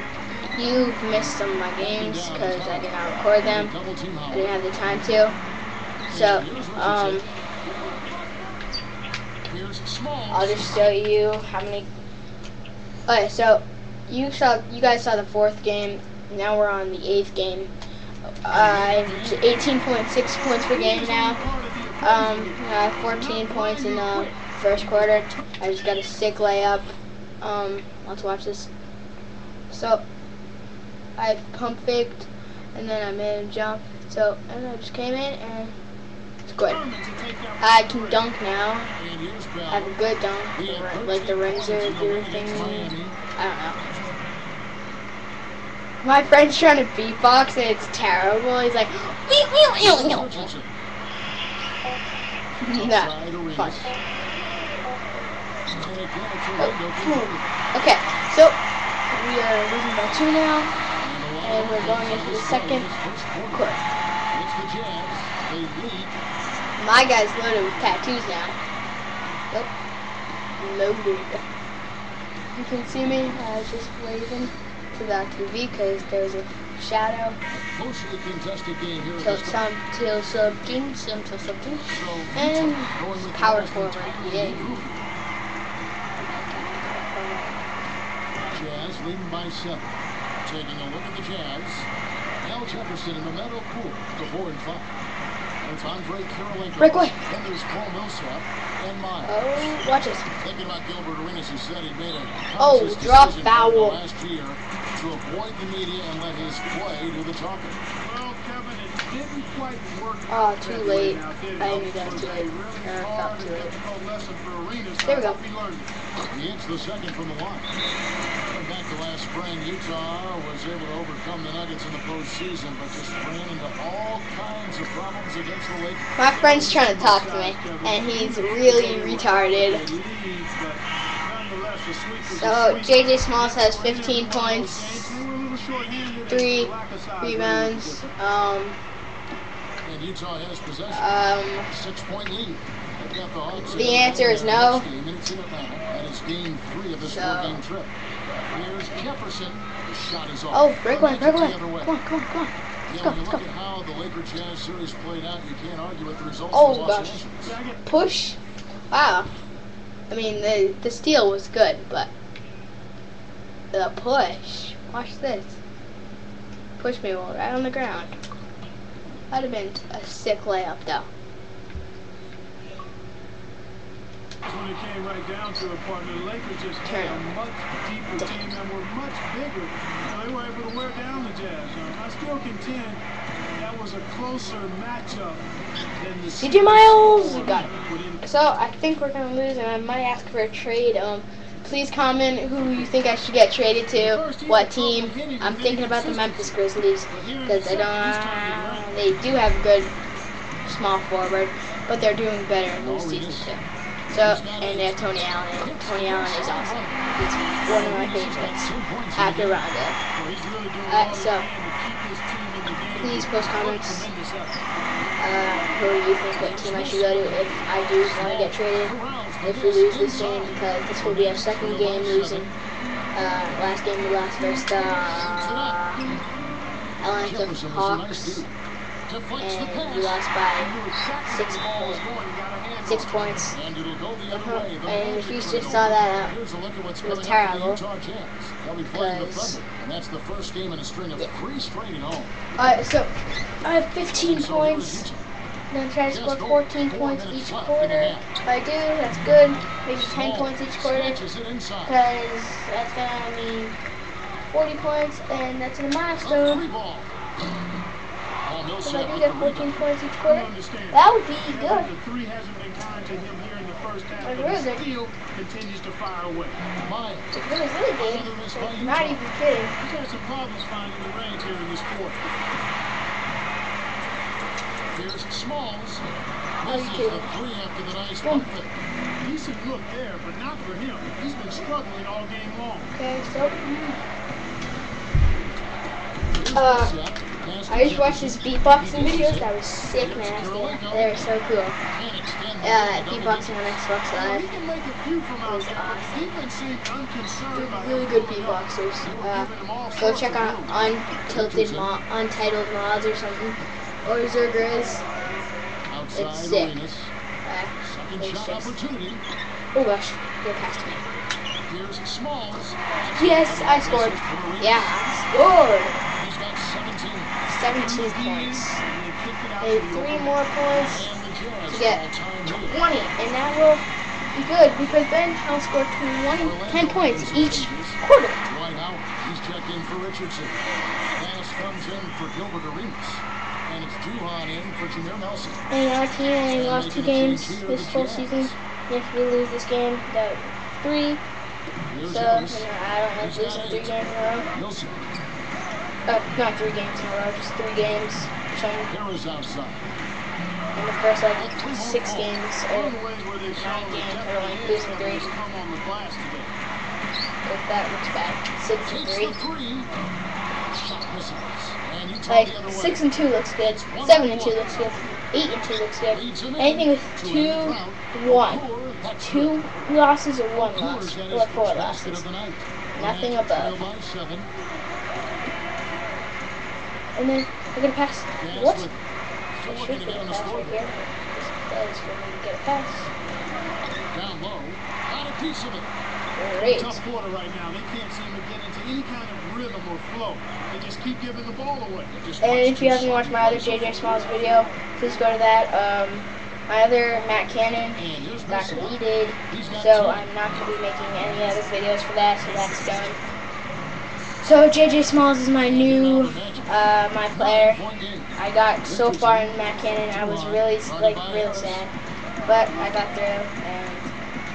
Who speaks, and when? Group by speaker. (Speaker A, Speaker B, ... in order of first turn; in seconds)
Speaker A: 0.5-3.7, 4.3-5.3, 6.1-7.3, 10.3-11.9, 13.1-17.7, 18.4-21.4, 22.0-28.7, 29.7-30.0, 31.2-35.7, 36.4-36.8, 37.6-38.9, 39.7-43.8, 46.0-50.5, 52.6-53.9, 56.6-60.7, 61.4-62.9, 63.5-63.8, 66.8-68.5, 70.6-71.4, 72.5-77.4, 79.2-84.8, 86.3-87.6, 96.8-97.2, 99.2-100.3, 102.6-104.0, 110.3-113.8, 115.0-115.4, 126.2-129.8, 132.2-135.2, 136.2-138.8, 140.9-141.7, 143.5-144.9, 147.0-147.6, 150.5-153.4, 156.5-157.3, 157.8-158.4, 158.9-159.3, 160.1-162.1, 163.7-165.6, 166.8-168.1, 169.3-171.1, 176.8-177.2, 178.2-178.4, 186.4-199.9, 200.6-210.0, 210.8-211.5, 212.9-214.1, 215.2-222.5, 223.1-226.2, 227.0-228.5, 229.4-230.7, 231.3-232.0, 232.8-233.6, 234.3-236.3, 237.0-237.8, 238.9-239.6, 242.6-243.1, 243.6-245.1, 245.7-251.2, 251.8-253.8, 254.5-256.6, 258.8-261.9, 264.2-264.8, 267.3-269.8, 276.6-277.4, 278.2-278.5, 282.9-284.0, 286.5-286.9, 287.7-291.8, 292.6-294.5, 295.4-296.3, 297.5-305.0, 306.1-306.7, 307.4-308.8, 309.7-311.1, 313.1-316.0, 317.4-318.8, 319.6-321.1, 321.7-328.4, 335.7-341.2, 342.0-344.5, 346.1-348.9, 350.7-353.0, 353.5-355.3, 357.4-359.4, 362.3-368.6, 369.2-372.2, 373.0-373.8, 377.1-378.9, 379.7-383.1, 386.4-387.0, 392.4-403.2, 404.4-407.8, 408.3-411.9, 412.4-414.1
Speaker B: 1.1-2.9, 3.4-4.5, 6.1-8.0, 9.5-10.8, 18.5-19.8, 39.0-39.9, 40.5-43.2, 49.8-50.7, 52.8-53.9, 55.7-57.4, 61.0-63.7, 64.3-66.2, 77.5-79.6, 81.8-85.0, 88.5-91.9, 92.4-94.9, 95.6-99.7, 100.4-107.8, 112.0-112.3, 116.3-117.7, 118.5-126.1, 139.8-141.1, 141.7-147.9, 148.5-151.9, 152.9-157.6, 202.7-203.5, 204.2-205.0, 205.6-207.0, 207.7-209.6, 216.3-222.5, 225.1-226.1, 227.2-228.5, 229.1-230.2, 233.5-242.3, 244.0-245.2, 246.1-248.3, 249.9-252.0, 256.2-257.1, 258.4-259.8, 266.8-267.3, 268.0-269.2, 274.9-276.1, 276.6-278.7, 286.3-291.2, 291.9-293.8, 301.3-301.9, 305.9-307.1, 307.8-309.2, 311.7-314.9, 316.1-317.3, 320.7-322.8, 326.3-330.6, 331.1-335.6, 336.5-338.5, 341.9-342.7, 343.2-343.9, 344.5-345.0, 348.9-349.9, 351.4-352.4, 358.8-359.9, 360.7-363.0, 363.6-364.9, 366.1-369.9, 370.6-374.5, 378.4-379.0, 379.5-380.8, 384.1-385.9, 392.1-394.7, 398.0-399.0, 399.5-400.3, 405.6-406.8, 407.3-408.3, 408.8-409.6, 410.1-411.8
Speaker C: 20.5-25.4, 36.6-38.3, 108.0-115.9, 126.3-138.1, 143.6-144.2, 157.4-157.8, 174.4-183.0, 183.5-185.4, 186.0-188.2, 193.9-196.6, 197.1-198.9, 210.1-214.6, 230.6-233.3, 260.2-266.6, 269.8-272.2, 279.2-282.9, 294.1-301.0, 317.7-320.4, 352.7-356.5, 386.6-392.1